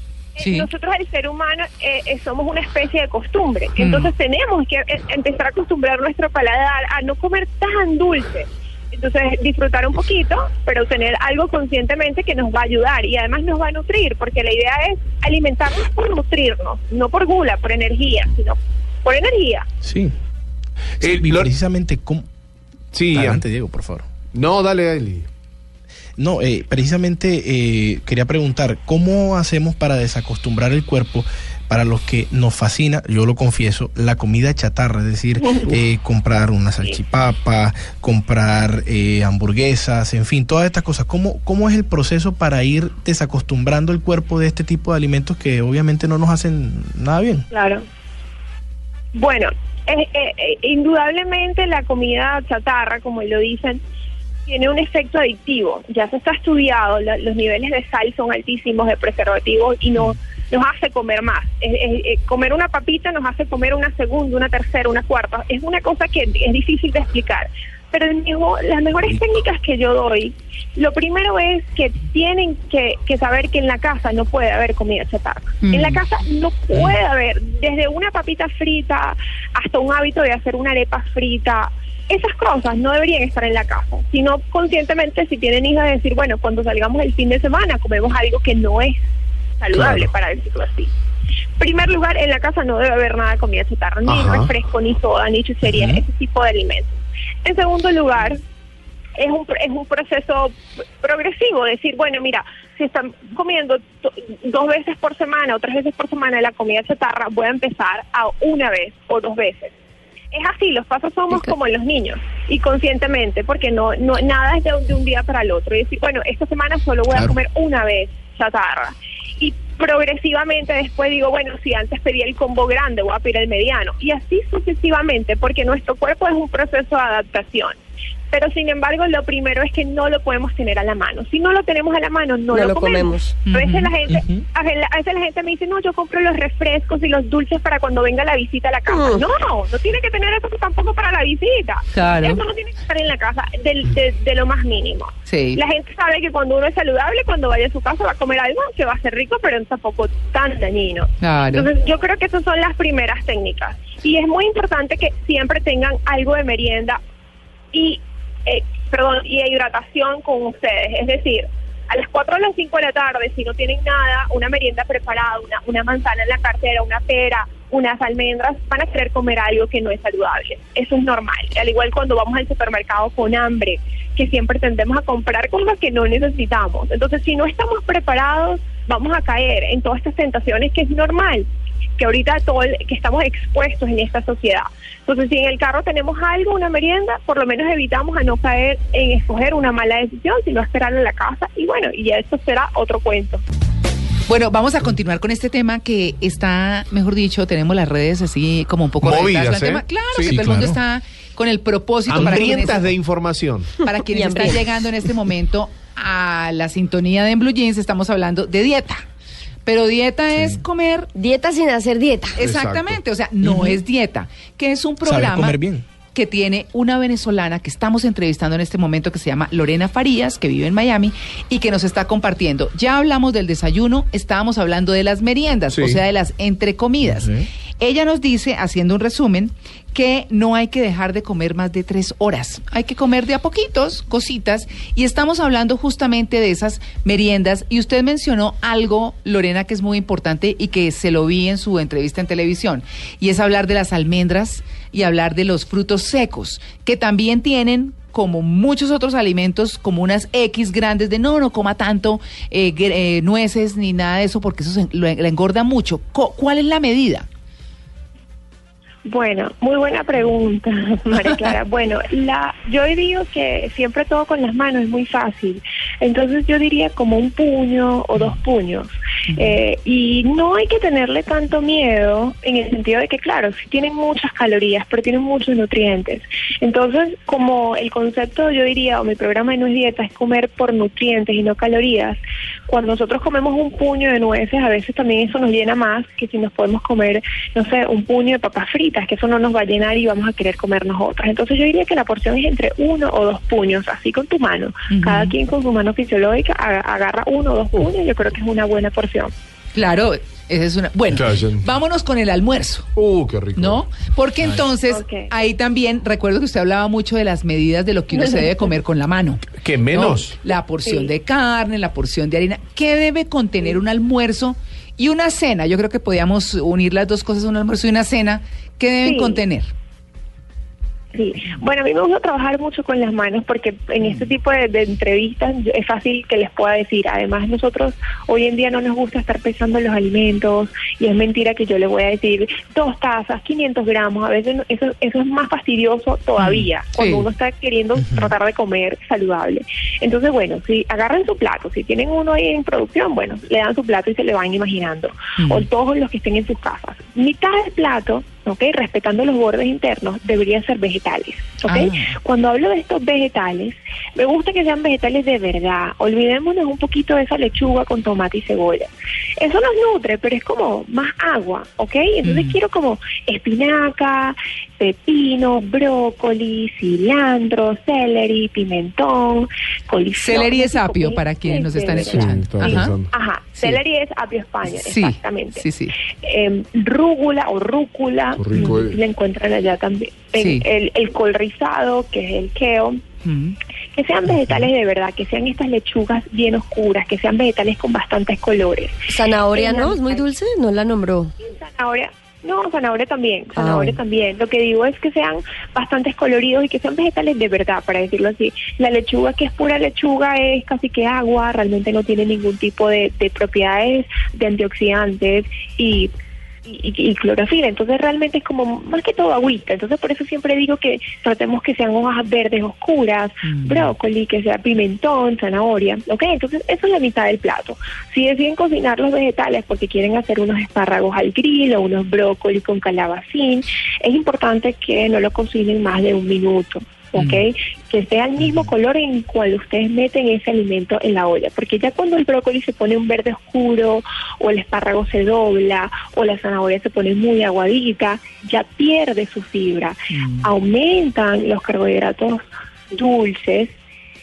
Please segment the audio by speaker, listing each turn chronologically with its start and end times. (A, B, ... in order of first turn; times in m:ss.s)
0:00.4-0:19.7 A
0:00.4-0:00.7 B
0:03.8-0:04.1 B
0:19.8-0:20.1 C
0:21.0-0:21.5 D
0:21.0-0:22.3 C
0:22.9-0:23.4 D
0:23.1-0:24.0 C
0:24.3-0:25.3 D
0:26.2-0:47.5 C
0:47.5-0:47.8 A
0:49.1-0:53.8 A
0:54.5-1:29.0 A
1:15.6-1:16.0 B
1:29.6-1:30.9 A
1:29.7-1:30.1 D
1:31.6-1:38.4 A
1:34.0-1:34.5 D
1:35.6-1:36.0 C
1:39.2-1:49.7 A
1:50.3-2:07.8 A
2:08.3-2:37.0 A
2:12.5-2:13.3 E
2:13.4-2:13.9 B
2:14.1-2:14.4 C
2:18.9-2:19.2 E
2:21.9-2:22.4 B
2:25.3-2:25.6 B
2:31.2-2:31.7 B
2:37.7-3:01.4 A
3:02.0-3:13.4 A
3:14.3-3:22.9 B
3:19.0-3:20.3 D
3:20.2-3:20.8 C
3:22.1-3:23.7 D
3:22.1-3:22.8 C
3:23.8-3:29.0 B
3:24.1-3:24.6 E
3:29.6-3:31.1 B
3:30.3-3:30.6 C
3:31.1-3:32.4 E
3:32.4-3:35.6 B
3:32.4-3:33.0 D
3:33.4-3:33.8 C
3:35.0-3:35.8 C
3:36.1-4:17.3 B
3:45.7-3:46.0 D
3:47.0-3:47.5 C
4:19.0-4:59.3 A
4:29.3-4:29.6 B
4:54.9-4:55.3 B
4:59.7-5:02.9 B
5:01.1-5:01.6 D
5:03.0-5:03.8 D
5:03.6-5:19.7 B
5:04.9-5:05.3 A
5:09.5-5:10.4 D
5:19.0-5:19.4 A
5:21.1-6:15.6 A
5:36.4-5:37.3 B
5:38.0-5:38.3 C
5:45.4-5:45.6 B
5:51.6-5:52.2 B
6:02.2-6:02.6 B
6:10.1-6:12.9 B
6:12.0-6:13.1 D
6:14.7-6:15.9 B
6:16.2-6:23.0 A
6:18.4-6:19.0 D
6:18.5-6:18.8 B
6:20.4-6:20.6 B
6:23.2-6:23.6 B
6:23.9-6:30.2 A
6:29.1-6:31.3 E
6:31.4-6:46.1 A
6:33.6-6:34.0 E
6:46.6-7:23.7 A
6:53.4-6:53.9 B
7:07.2-7:07.4 B
7:20.1-7:20.5 B